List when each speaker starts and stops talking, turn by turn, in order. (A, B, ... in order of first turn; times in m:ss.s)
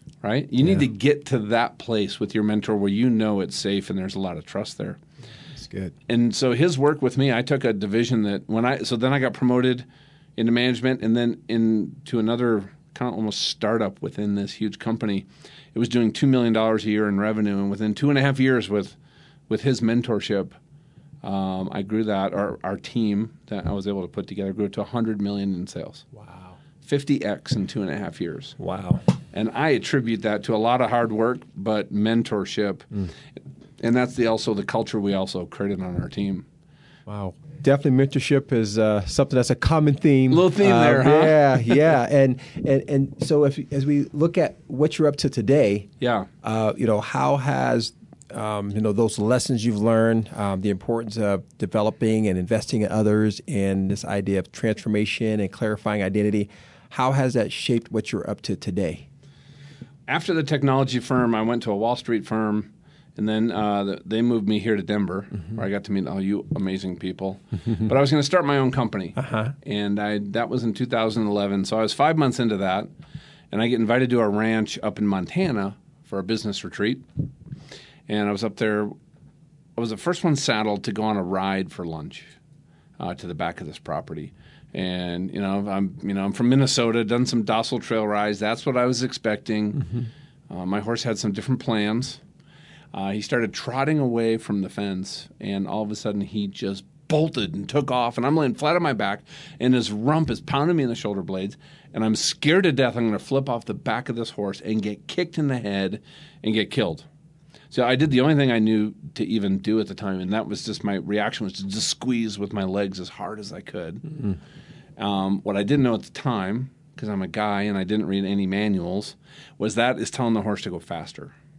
0:00.2-0:05.0 A
0:05.6-0:06.0 B
0:06.1-0:09.8 A
0:10.4-0:19.0 A
0:19.5-0:20.6 A
0:21.2-0:26.1 A
0:26.2-0:26.5 B
0:26.8-0:28.6 A
0:28.6-0:29.0 B
0:29.3-0:32.9 A
0:33.8-0:36.4 A
0:37.1-0:45.9 B
0:40.3-0:41.8 A
0:46.0-0:46.3 A
0:46.4-0:59.1 B
1:00.1-1:12.9 A
1:09.2-1:09.5 B
1:13.5-1:17.0 A
1:18.1-1:18.9 A
1:19.8-1:22.3 A
1:23.0-1:29.9 A
1:30.5-1:32.2 A
1:32.9-1:47.1 A
1:47.7-1:54.2 A
1:55.0-2:01.3 A